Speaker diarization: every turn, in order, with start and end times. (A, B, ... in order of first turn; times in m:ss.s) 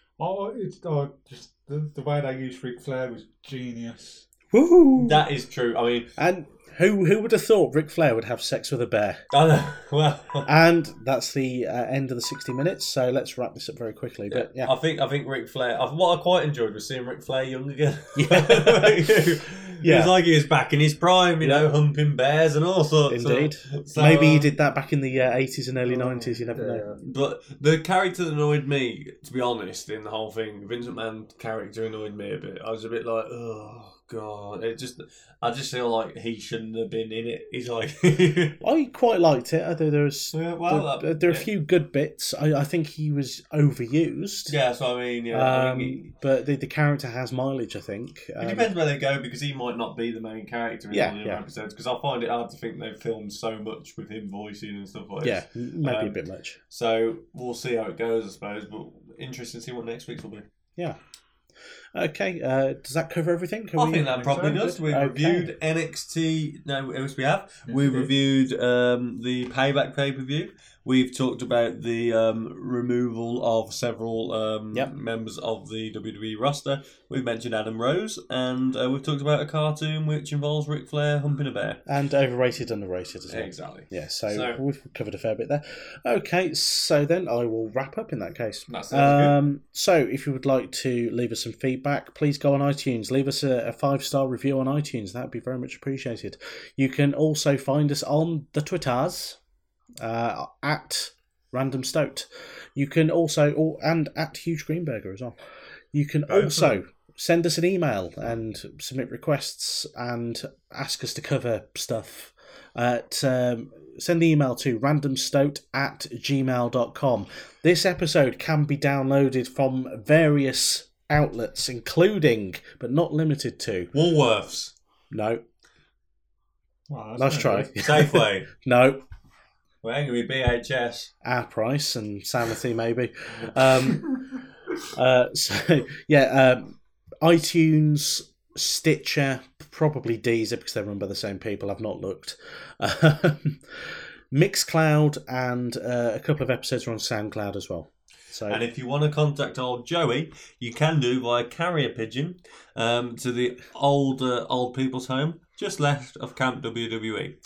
0:00.2-0:04.3 A
0:04.5-0:05.2 B
0:05.0-0:06.1 C
0:06.2-0:09.2 B
0:09.3-0:10.5 C
0:10.4-0:14.7 B
0:14.3-0:24.5 C
0:18.2-0:19.3 B
0:19.8-0:20.1 B
0:21.4-0:21.7 B
0:23.1-0:26.9 B
0:25.9-0:26.3 C
0:26.5-0:27.0 A
0:26.9-0:38.6 C
0:38.6-0:44.5 B
0:40.3-0:41.5 C
0:44.5-0:46.0 C
0:45.3-0:48.7 B
0:48.4-1:00.4 C
0:50.9-0:51.4 B
0:55.2-0:56.6 B
1:01.9-1:05.5 B
1:03.8-1:21.8 C
1:04.1-1:04.7 A
1:07.7-1:08.1 A
1:21.9-1:39.4 B
1:23.3-1:24.6 C
1:28.7-1:29.4 C
1:40.0-1:45.4 B
1:45.9-2:03.9 B
1:46.3-1:46.8 C
2:03.9-2:04.7 C
2:05.1-2:05.4 B
2:06.9-2:07.7 A
2:07.2-2:09.0 B
2:07.7-2:08.5 C
2:09.8-2:11.1 C
2:11.2-2:14.2 B
2:14.9-2:28.6 B
2:28.5-2:37.4 C